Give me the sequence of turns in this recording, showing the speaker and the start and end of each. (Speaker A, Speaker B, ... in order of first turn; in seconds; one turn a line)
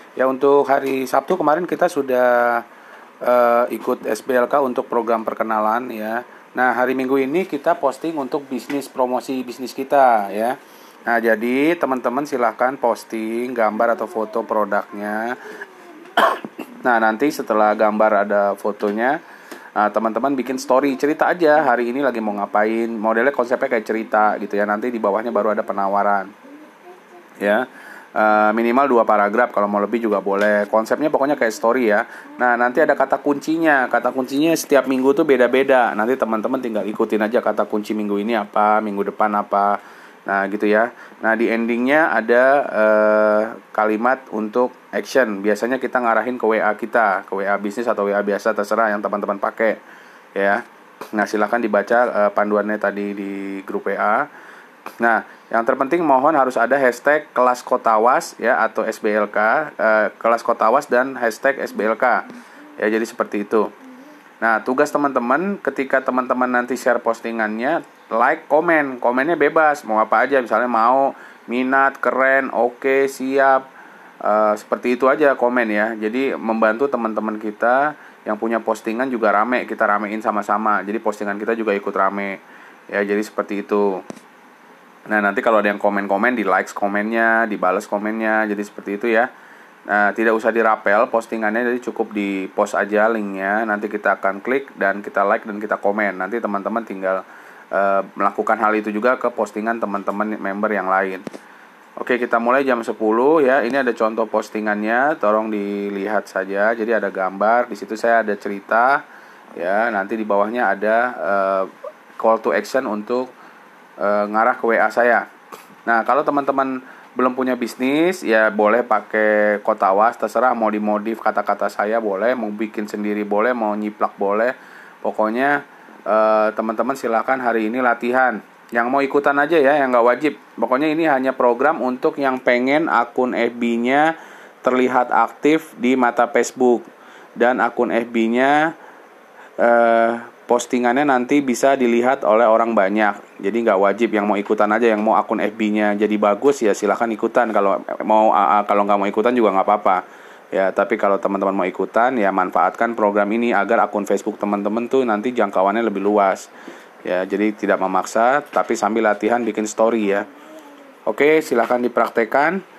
Speaker A: 0.2-2.6
Speaker A: 3.2-15.6
Speaker A: 16.1-19.2
Speaker A: 19.7-26.3
Speaker A: 27.4-49.8
Speaker A: 50.3-50.6
Speaker A: 51.1-54.3
Speaker A: 55.0-63.7
Speaker A: 64.4-73.6
Speaker A: 74.2-84.0
Speaker A: 85.1-89.3
Speaker A: 89.9-101.2
Speaker A: 102.0-109.0
Speaker A: 109.6-113.3
Speaker A: 114.0-115.2
Speaker A: 115.8-136.8
Speaker A: 137.4-138.7
Speaker A: 139.6-156.5
Speaker A: 157.0-160.3
Speaker A: 161.1-162.6